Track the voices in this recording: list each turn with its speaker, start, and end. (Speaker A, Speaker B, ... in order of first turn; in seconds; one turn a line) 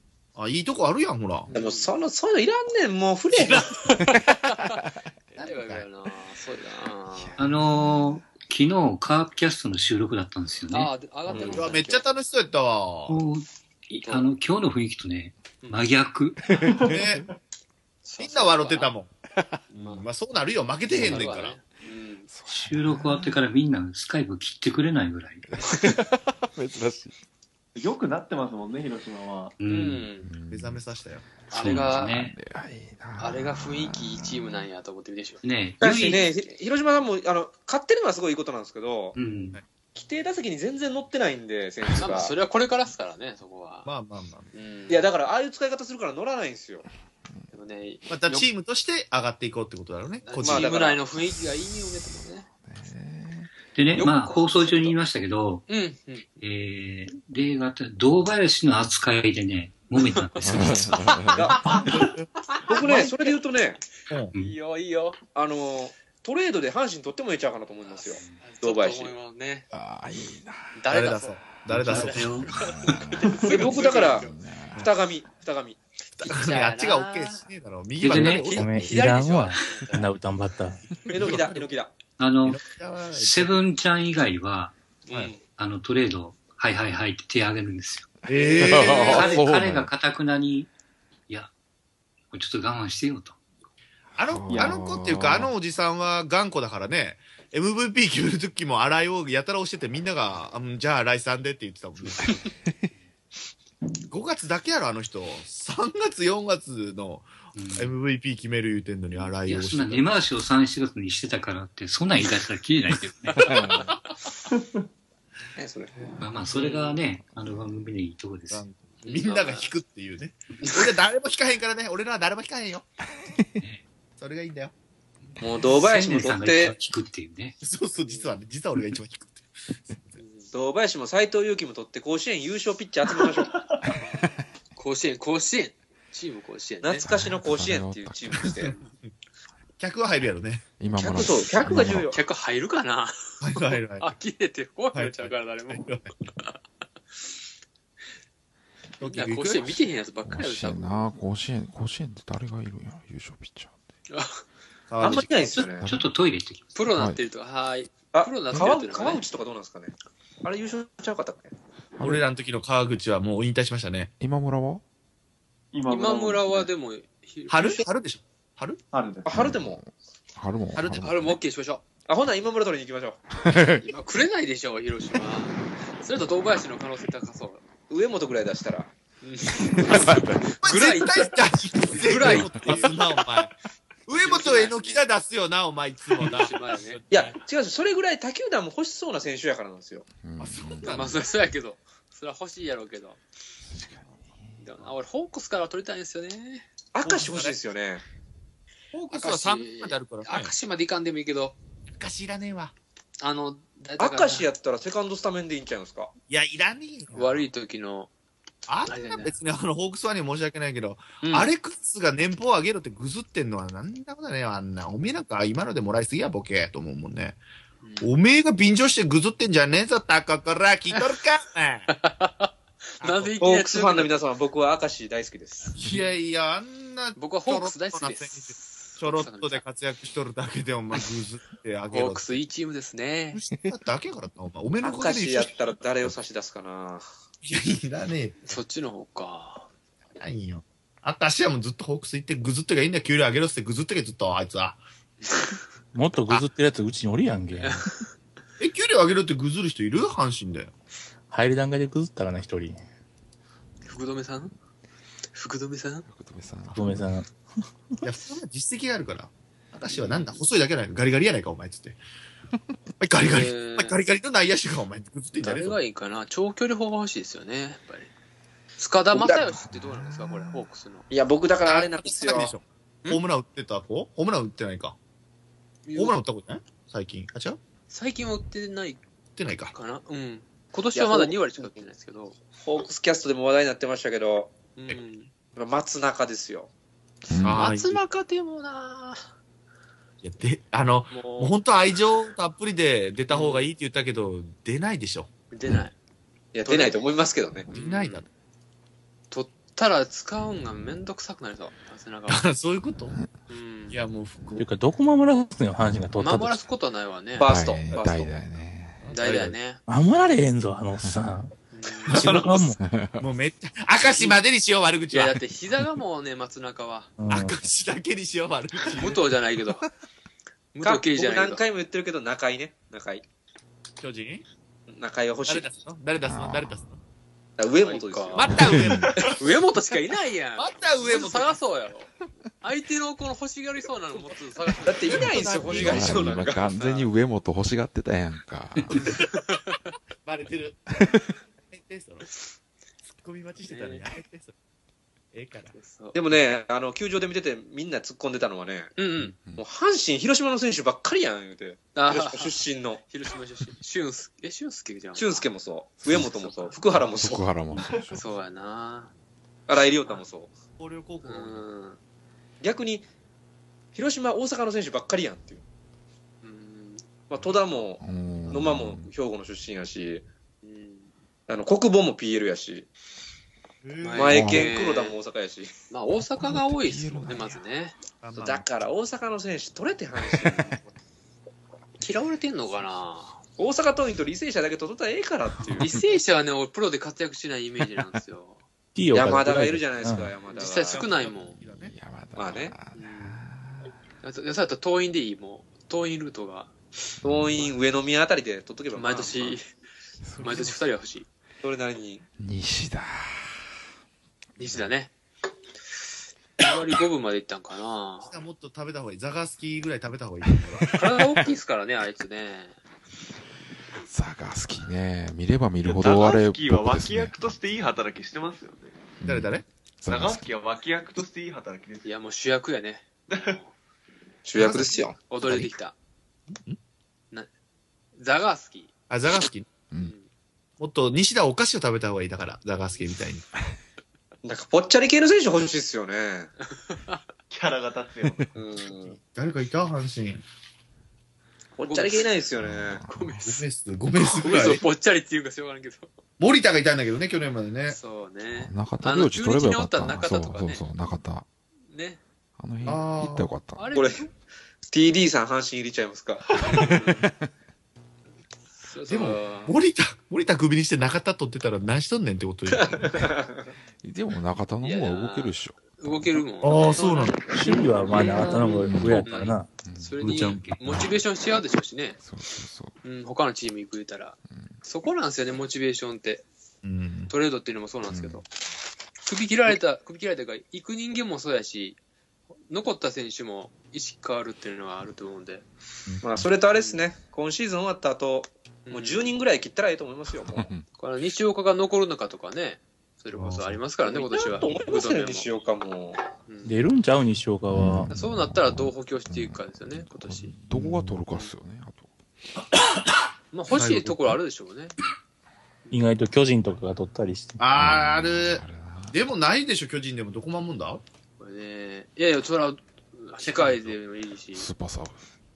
Speaker A: 0.3-1.5
Speaker B: 1.5-1.9
Speaker C: 1.5-3.7
Speaker A: 3.3-3.7
Speaker B: 3.8-4.8
Speaker A: 5.3-5.8
Speaker B: 5.4-7.4
Speaker D: 7.1-7.8
Speaker E: 7.4-10.9
Speaker B: 10.7-12.1
Speaker C: 11.3-11.6
Speaker A: 11.4-13.2
Speaker E: 13.1-16.4
Speaker B: 14.0-14.3
Speaker D: 16.5-17.2
Speaker A: 16.8-17.3
Speaker B: 18.0-18.9
Speaker A: 18.2-19.1
Speaker B: 19.7-20.0
Speaker A: 19.7-21.6
Speaker B: 20.9-22.3
Speaker D: 22.3-23.4
Speaker E: 22.5-25.5
Speaker D: 25.5-27.1
Speaker F: 27.8-29.5
Speaker E: 29.6-30.1
Speaker B: 29.7-30.3
Speaker D: 30.2-30.8
Speaker A: 30.5-31.2
Speaker D: 31.5-34.7
Speaker B: 31.5-32.2
Speaker E: 31.5-32.3
Speaker B: 33.2-35.4
Speaker E: 35.4-36.3
Speaker C: 35.8-39.1
Speaker E: 39.1-39.6
Speaker C: 39.9-42.3
Speaker B: 41.9-43.9
Speaker A: 43.8-44.5
Speaker B: 44.5-45.1
Speaker C: 44.9-46.9
Speaker B: 47.5-48.5
Speaker A: 48.1-50.7
Speaker B: 50.2-52.5
Speaker C: 50.4-51.0
Speaker D: 51.2-53.5
Speaker E: 53.7-55.6
Speaker B: 54.0-54.3
Speaker B: 55.7-56.2
Speaker E: 56.4-60.9
Speaker B: 60.0-63.4
Speaker D: 60.4-61.6
Speaker C: 61.3-61.8
Speaker A: 61.7-62.3
Speaker C: 62.7-63.8
Speaker A: 64.1-64.3
Speaker B: 64.3-65.2
Speaker C: 65.3-69.1
Speaker B: 67.8-69.7
Speaker D: 69.7-70.8
Speaker B: 70.7-74.3
Speaker A: 70.9-72.5
Speaker D: 71.6-74.9
Speaker F: 71.9-72.4
Speaker F: 73.2-73.6
Speaker C: 73.5-75.8
Speaker A: 73.6-74.2
Speaker A: 76.2-79.0
Speaker B: 76.2-77.5
Speaker E: 78.0-78.7
Speaker G: 78.1-80.9
Speaker B: 78.2-80.1
Speaker A: 81.1-81.7
Speaker C: 81.1-81.9
Speaker E: 82.2-82.6
Speaker A: 82.4-83.6
Speaker E: 83.1-84.8
Speaker B: 85.1-85.4
Speaker E: 85.6-90.7
Speaker A: 88.3-89.3
Speaker B: 88.3-89.4
Speaker D: 88.6-89.9
Speaker E: 92.3-93.4
Speaker A: 94.2-102.5
Speaker D: 94.2-95.5
Speaker F: 94.5-94.8
Speaker A: 104.1-110.1
Speaker E: 107.5-107.9
Speaker E: 109.4-113.7
Speaker B: 113.3-114.1
Speaker D: 113.3-113.9
Speaker F: 114.5-114.8
Speaker C: 115.6-116.1
Speaker E: 116.2-118.6
Speaker A: 118.5-122.8
Speaker B: 119.0-119.7
Speaker D: 123.2-123.6
Speaker A: 124.2-124.7
Speaker C: 125.4-126.8
Speaker E: 125.5-127.6
Speaker A: 127.6-130.0
Speaker B: 128.1-128.4
Speaker B: 130.2-130.5
Speaker C: 130.5-133.6
Speaker B: 134.0-134.2
Speaker B: 134.7-137.0
Speaker C: 136.8-138.8
Speaker D: 137.0-138.6
Speaker A: 138.4-139.1
Speaker A: 139.8-140.7
Speaker D: 140.8-142.1
Speaker C: 140.9-142.2
Speaker B: 142.1-146.6
Speaker A: 143.4-144.1
Speaker A: 144.9-146.1
Speaker A: 149.0-149.9
Speaker B: 149.0-151.1
Speaker D: 150.2-153.7
Speaker B: 154.1-154.4
Speaker A: 154.9-155.6
Speaker C: 155.0-155.9
Speaker D: 155.8-156.0
Speaker E: 155.8-156.7
Speaker B: 156.7-159.2
Speaker D: 156.9-157.2
Speaker C: 158.1-161.5
Speaker D: 162.0-162.2
Speaker A: 162.0-164.1
Speaker D: 164.2-164.8
Speaker F: 165.7-166.7
Speaker B: 165.9-167.8
Speaker A: 167.5-168.8
Speaker F: 168.9-169.4
Speaker C: 169.2-169.8
Speaker D: 169.3-169.8
Speaker D: 170.3-171.4
Speaker A: 170.8-171.2
Speaker B: 171.0-171.8
Speaker C: 172.1-173.2
Speaker D: 173.4-173.9
Speaker B: 173.8-177.6
Speaker C: 177.9-178.9
Speaker B: 179.2-183.0
Speaker D: 179.9-180.4
Speaker A: 180.6-183.5
Speaker D: 182.2-182.5
Speaker A: 184.1-187.2
Speaker B: 184.1-185.0
Speaker B: 186.2-187.0
Speaker C: 187.1-190.1
Speaker D: 190.2-191.1
Speaker A: 190.4-191.3
Speaker B: 190.8-193.2
Speaker D: 193.7-194.9
Speaker B: 194.6-196.7
Speaker C: 196.9-198.0
Speaker A: 197.0-197.6
Speaker A: 198.9-200.5
Speaker B: 199.1-201.6
Speaker A: 202.0-202.7
Speaker B: 203.2-204.5
Speaker C: 204.0-206.1
Speaker A: 206.3-207.4
Speaker B: 207.1-208.1
Speaker A: 208.7-217.4
Speaker B: 208.8-209.3
Speaker B: 211.2-211.5
Speaker B: 217.8-218.1
Speaker A: 218.0-221.9
Speaker B: 221.9-224.1
Speaker A: 223.0-223.4
Speaker C: 223.4-225.8
Speaker A: 225.8-232.4
Speaker B: 227.2-229.6
Speaker B: 231.9-233.4
Speaker A: 233.3-235.5
Speaker C: 234.8-237.0
Speaker A: 237.4-238.6
Speaker B: 238.5-239.7
Speaker A: 240.2-244.8
Speaker G: 245.9-247.8
Speaker A: 248.6-250.7
Speaker G: 251.3-252.8
Speaker B: 253.8-254.5
Speaker B: 255.3-256.1
Speaker D: 256.1-257.0
Speaker G: 256.7-257.3
Speaker A: 258.0-262.0
Speaker B: 259.9-260.4
Speaker A: 263.0-265.8
Speaker B: 263.2-264.0
Speaker B: 265.4-268.1
Speaker B: 268.8-271.0
Speaker C: 269.1-269.4
Speaker C: 271.1-272.5
Speaker A: 271.6-275.0
Speaker B: 275.9-276.2
Speaker A: 275.9-277.6
Speaker B: 277.9-279.0
Speaker A: 279.4-279.7
Speaker B: 279.7-282.4
Speaker C: 280.9-281.8
Speaker C: 282.6-284.5
Speaker B: 284.8-285.3
Speaker C: 285.6-286.7
Speaker D: 287.3-287.7
Speaker A: 287.4-288.0
Speaker B: 287.4-289.3
Speaker A: 290.2-295.3
Speaker C: 291.1-291.5
Speaker B: 293.3-293.7
Speaker B: 295.5-295.9
Speaker C: 296.5-297.7
Speaker B: 296.6-297.0
Speaker A: 297.7-298.3
Speaker B: 297.7-298.2
Speaker B: 299.3-302.4
Speaker A: 302.3-303.2
Speaker B: 303.5-304.0
Speaker A: 303.9-304.7
Speaker G: 304.6-306.7
Speaker B: 306.2-307.5
Speaker C: 307.4-308.3
Speaker D: 307.4-309.1
Speaker A: 309.0-309.6
Speaker B: 309.1-309.8
Speaker G: 309.9-311.5
Speaker B: 311.7-312.4
Speaker A: 312.1-312.6
Speaker G: 312.1-312.8
Speaker D: 312.8-313.3
Speaker A: 313.2-315.4
Speaker B: 315.1-317.1
Speaker G: 317.2-317.6
Speaker A: 317.3-319.3
Speaker B: 318.9-319.9
Speaker B: 320.7-321.6
Speaker C: 320.8-323.2
Speaker A: 324.0-324.4
Speaker C: 324.9-325.7
Speaker A: 325.4-327.0
Speaker D: 326.2-326.8
Speaker C: 327.6-328.6
Speaker B: 327.7-332.1
Speaker A: 328.4-329.6
Speaker D: 328.7-329.1
Speaker A: 330.6-331.6
Speaker B: 332.6-337.1
Speaker C: 334.8-336.8
Speaker A: 335.1-336.4
Speaker D: 335.6-339.1
Speaker A: 338.9-339.2
Speaker B: 339.3-339.9
Speaker A: 340.2-342.4
Speaker A: 343.1-344.5
Speaker B: 343.6-344.0
Speaker A: 345.3-345.8
Speaker B: 345.7-346.2
Speaker C: 346.1-348.9
Speaker B: 349.0-349.3
Speaker C: 349.6-353.0
Speaker B: 351.9-355.5
Speaker C: 355.1-357.4
Speaker D: 356.0-356.4
Speaker D: 356.9-358.4
Speaker B: 358.1-359.1
Speaker C: 359.7-360.5
Speaker A: 360.8-361.6
Speaker B: 361.2-362.0
Speaker C: 362.6-363.1
Speaker C: 363.9-365.6
Speaker B: 366.4-367.1
Speaker C: 367.3-370.2
Speaker D: 368.0-369.1
Speaker B: 370.6-371.1
Speaker C: 371.5-372.9
Speaker A: 373.8-374.4
Speaker B: 374.0-375.2
Speaker C: 374.1-375.7
Speaker D: 374.3-374.7
Speaker B: 375.9-378.0
Speaker D: 376.1-377.6
Speaker A: 378.2-378.7
Speaker C: 378.3-380.8
Speaker B: 382.0-383.4
Speaker C: 383.6-385.9
Speaker B: 385.8-388.6
Speaker G: 388.9-390.3
Speaker C: 389.1-391.0
Speaker A: 390.5-391.9
Speaker B: 390.5-391.6
Speaker D: 391.8-393.9
Speaker C: 392.4-392.7
Speaker B: 392.9-393.4
Speaker B: 394.2-396.7
Speaker D: 397.2-397.7
Speaker C: 397.2-399.6
Speaker B: 398.9-399.6
Speaker D: 400.2-400.8
Speaker A: 400.3-400.8
Speaker B: 400.4-401.3
Speaker C: 401.6-402.2
Speaker D: 402.4-403.6
Speaker D: 404.6-404.9
Speaker B: 404.6-405.1
Speaker B: 406.6-408.3
Speaker A: 408.2-410.9
Speaker D: 410.7-411.5
Speaker B: 410.9-412.8
Speaker D: 414.0-417.4
Speaker F: 415.8-419.0
Speaker D: 419.2-420.5
Speaker A: 419.2-419.6
Speaker F: 420.1-422.1
Speaker B: 422.0-423.7
Speaker F: 423.3-423.6
Speaker C: 424.4-425.2
Speaker A: 424.5-425.0
Speaker B: 425.3-425.9
Speaker D: 425.4-425.7
Speaker A: 426.5-426.8
Speaker B: 428.1-428.9
Speaker A: 429.1-429.7
Speaker B: 429.9-430.3
Speaker A: 430.8-433.4
Speaker C: 434.4-436.5
Speaker B: 436.7-437.2
Speaker F: 437.5-438.9
Speaker C: 438.5-439.2
Speaker A: 439.2-440.4
Speaker C: 441.8-443.0
Speaker B: 441.8-442.3
Speaker D: 442.6-443.5
Speaker B: 443.1-443.6
Speaker A: 443.4-444.8
Speaker B: 444.2-446.1
Speaker A: 446.4-448.0
Speaker B: 447.9-450.8
Speaker D: 448.5-451.4
Speaker B: 451.9-452.2
Speaker D: 452.6-453.9
Speaker A: 452.8-453.5
Speaker B: 453.8-454.3
Speaker C: 453.9-454.3
Speaker C: 454.9-456.9
Speaker B: 456.6-457.2
Speaker D: 456.7-457.3
Speaker B: 458.8-459.7
Speaker A: 459.1-463.3
Speaker C: 462.9-463.7
Speaker D: 464.0-466.4
Speaker B: 464.8-472.2
Speaker A: 466.6-467.5
Speaker G: 467.5-471.1
Speaker D: 468.8-469.3
Speaker D: 469.8-471.2
Speaker D: 472.2-472.9
Speaker B: 473.0-476.4
Speaker A: 476.8-477.3
Speaker B: 477.3-478.4
Speaker D: 478.1-478.4
Speaker B: 479.2-482.0
Speaker B: 482.7-485.6
Speaker A: 486.1-486.4
Speaker C: 486.2-490.7
Speaker B: 486.7-487.0
Speaker B: 488.9-489.3
Speaker D: 490.5-490.8
Speaker B: 490.9-495.5
Speaker C: 494.0-496.2
Speaker B: 496.5-496.7
Speaker G: 496.6-498.1
Speaker D: 497.7-502.1
Speaker B: 498.1-500.5
Speaker A: 500.7-501.2
Speaker B: 503.5-504.9
Speaker A: 503.7-504.2
Speaker G: 505.9-507.7
Speaker A: 507.6-511.0
Speaker D: 507.7-509.2
Speaker B: 511.4-514.7
Speaker D: 514.5-515.2